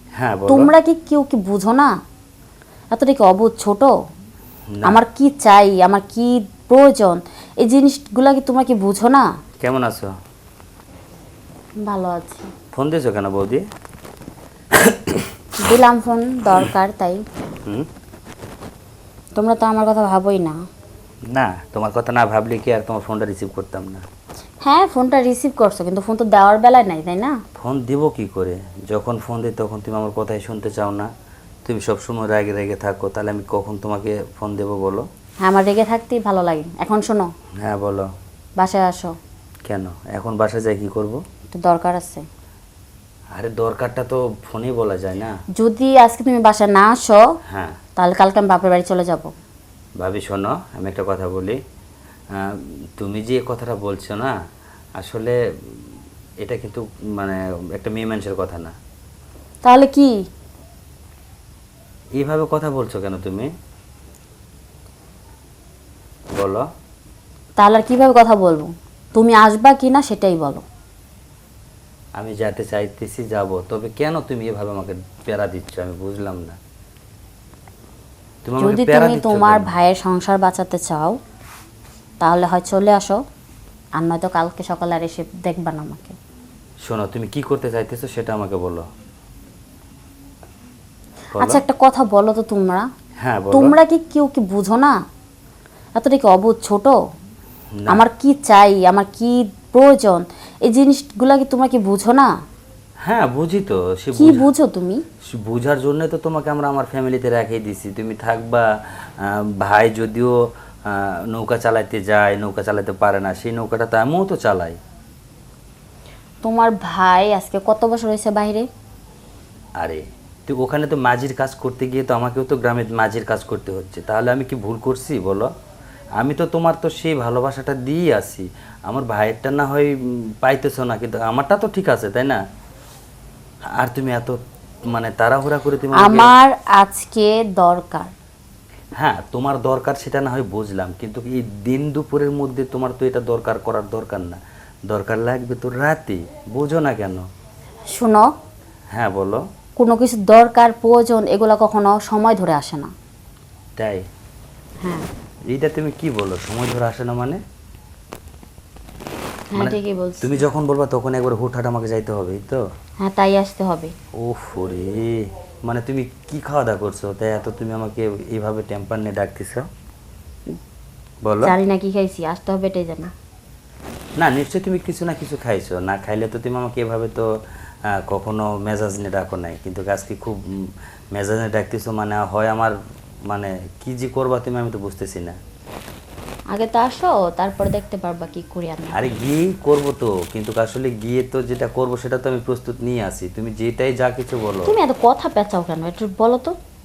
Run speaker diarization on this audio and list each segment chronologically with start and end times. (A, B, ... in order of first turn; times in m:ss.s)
0:00.2-0:00.7 A
0:00.5-0:01.9 B
0:02.9-0:03.9 B
0:04.7-0:05.0 A
0:04.8-0:09.2 B
0:09.6-0:10.1 A
0:11.8-0:12.5 B
0:12.7-0:13.6 A
0:14.8-0:15.3 A
0:15.6-0:17.2 B
0:19.4-0:20.6 B
0:21.3-0:24.0 A
0:24.6-0:27.4 B
0:27.6-0:31.1 A
0:31.6-0:35.0 A
0:35.4-0:37.3 B
0:37.6-0:38.1 A
0:38.6-0:39.1 B
0:39.7-0:41.2 A
0:41.5-0:42.2 B
0:43.4-0:45.3 A
0:45.6-0:47.2 B
0:47.5-0:47.8 A
0:48.0-0:49.3 B
0:50.0-0:51.6 A
0:52.4-0:54.3 A
0:55.0-0:55.4 A
0:56.4-0:58.7 A
0:59.6-1:00.1 B
1:02.2-1:03.5 A
1:06.4-1:06.6 A
1:07.6-1:10.6 B
1:12.2-1:16.6 A
1:18.4-1:19.7 A
1:18.6-1:21.2 B
1:22.2-1:23.2 B
1:24.0-1:26.2 B
1:26.9-1:28.8 A
1:31.3-1:31.6 A
1:31.4-1:32.9 B
1:33.2-1:33.8 A
1:33.5-1:34.9 B
1:36.0-1:37.0 B
1:37.9-1:42.3 B
1:43.0-1:44.5 A
1:44.2-1:45.0 B
1:45.3-1:50.3 A
1:50.9-1:54.8 A
1:56.4-1:58.7 B
1:59.8-2:05.5 A
2:06.2-2:12.4 A
2:13.8-2:16.3 A
2:16.0-2:18.1 B
2:19.0-2:27.2 A
2:27.9-2:28.3 B
2:29.0-2:29.4 A
2:29.8-2:32.9 B
2:33.8-2:34.0 A
2:35.5-2:37.4 A
2:39.5-2:40.4 B
2:39.6-2:42.6 A
2:43.0-2:43.9 B
2:44.2-2:49.6 A
2:51.2-2:51.5 A
2:51.4-2:53.1 B
2:54.2-2:57.3 A
2:58.0-3:00.4 A
3:01.1-3:02.8 A
3:03.3-3:05.4 A
3:06.5-3:09.2 B
3:08.9-3:14.8 A
3:14.7-3:16.5 B